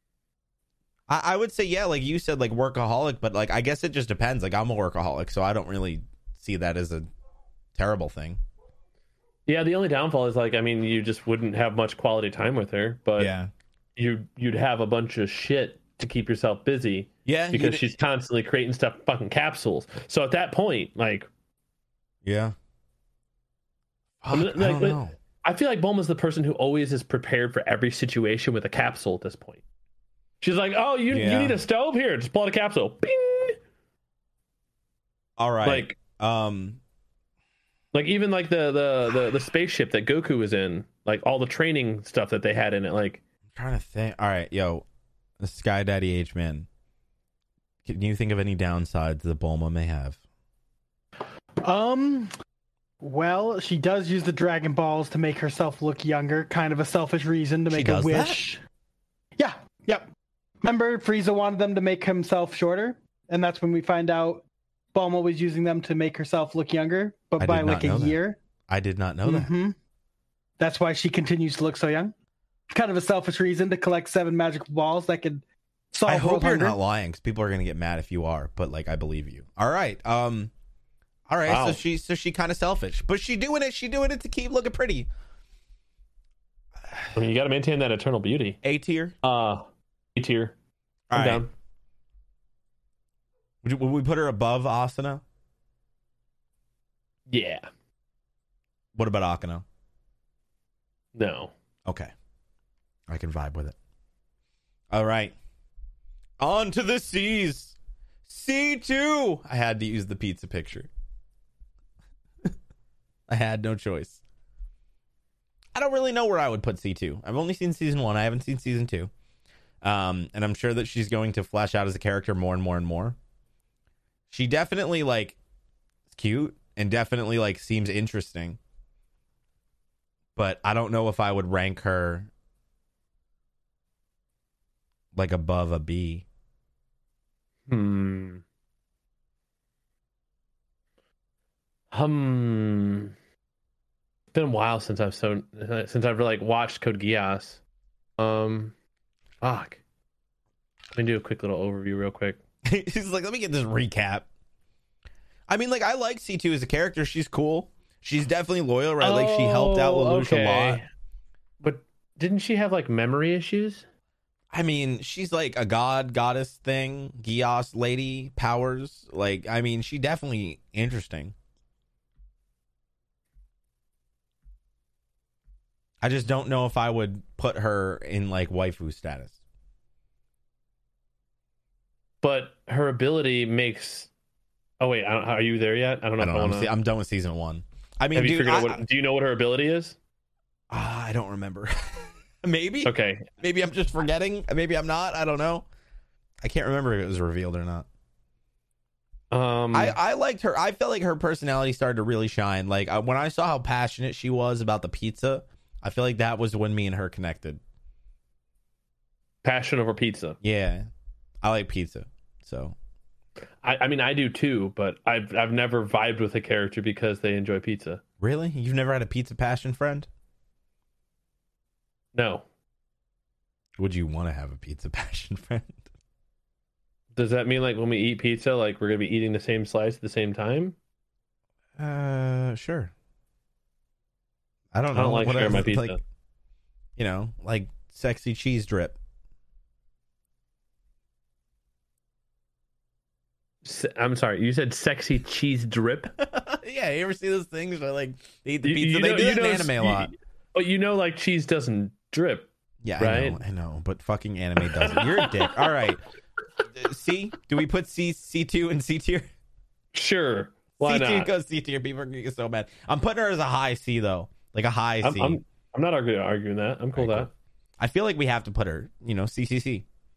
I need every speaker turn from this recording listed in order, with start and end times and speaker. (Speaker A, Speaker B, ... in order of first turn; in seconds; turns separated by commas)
Speaker A: 1.1-7.1, Speaker A: 7.8-8.4, Speaker B: 9.5-13.3, Speaker A: 13.2-13.5, Speaker B: 14.0-21.3, Speaker A: 17.3-17.9, Speaker A: 22.2-22.5, Speaker A: 24.2-25.1, Speaker B: 24.3-29.6, Speaker B: 30.4-33.6, Speaker A: 31.1-31.6, Speaker A: 35.4-36.8, Speaker B: 35.6-36.0, Speaker B: 37.9-43.2, Speaker A: 43.5-44.9, Speaker A: 45.4-46.7, Speaker A: 47.9-50.2, Speaker C: 51.6-52.3, Speaker C: 53.0-58.6, Speaker A: 57.7-58.5, Speaker C: 59.4-60.1, Speaker C: 60.6-64.4, Speaker C: 64.9-68.4, Speaker A: 67.4-68.2, Speaker A: 68.7-69.5, Speaker C: 69.2-69.8, Speaker C: 70.6-72.1, Speaker C: 72.7-76.8, Speaker A: 76.1-80.5, Speaker A: 81.3-85.1, Speaker B: 81.5-81.8, Speaker B: 87.1-88.6, Speaker A: 88.6-89.2, Speaker B: 89.2-90.5, Speaker A: 91.1-91.4, Speaker B: 91.1-91.5, Speaker A: 93.6-95.2, Speaker B: 97.3-97.7, Speaker A: 99.0-99.6, Speaker B: 101.2-101.5, Speaker A: 101.9-102.1, Speaker A: 103.1-103.8, Speaker A: 104.9-105.3, Speaker A: 106.4-110.9, Speaker A: 113.3-114.2, Speaker A: 115.8-119.1, Speaker A: 119.8-123.2, Speaker A: 124.3-125.4, Speaker A: 126.1-128.6, Speaker A: 130.4-132.3, Speaker A: 135.2-136.2, Speaker B: 137.7-138.4, Speaker B: 141.9-143.1, Speaker B: 144.3-147.6, Speaker B: 148.2-148.7, Speaker B: 149.4-149.8, Speaker B: 150.9-152.4, Speaker A: 152.7-154.3, Speaker A: 155.5-160.8, Speaker B: 159.0-160.8, Speaker B: 161.6-163.8, Speaker A: 164.5-171.3, Speaker A: 176.0-179.4, Speaker B: 182.2-184.1, Speaker B: 184.8-186.7, Speaker A: 186.2-188.8, Speaker B: 188.1-190.0, Speaker A: 190.7-195.7, Speaker B: 192.8-193.3, Speaker A: 196.4-197.9, Speaker B: 199.3-200.0, Speaker A: 199.7-207.6, Speaker B: 209.4-210.4, Speaker A: 210.4-210.9, Speaker A: 211.4-212.8, Speaker B: 213.6-218.0, Speaker A: 218.2-220.1, Speaker B: 222.1-222.4, Speaker A: 223.8-225.8, Speaker B: 227.1-230.8, Speaker A: 231.8-232.9, Speaker A: 234.7-236.0, Speaker B: 234.9-236.0, Speaker A: 237.0-239.0, Speaker B: 243.6-246.1, Speaker A: 246.2-250.1, Speaker B: 248.6-253.4, Speaker A: 252.8-256.0, Speaker B: 254.6-255.9, Speaker A: 256.8-259.3, Speaker B: 259.9-261.3, Speaker A: 260.8-265.4, Speaker B: 265.0-267.3, Speaker A: 266.9-267.3, Speaker A: 267.8-269.9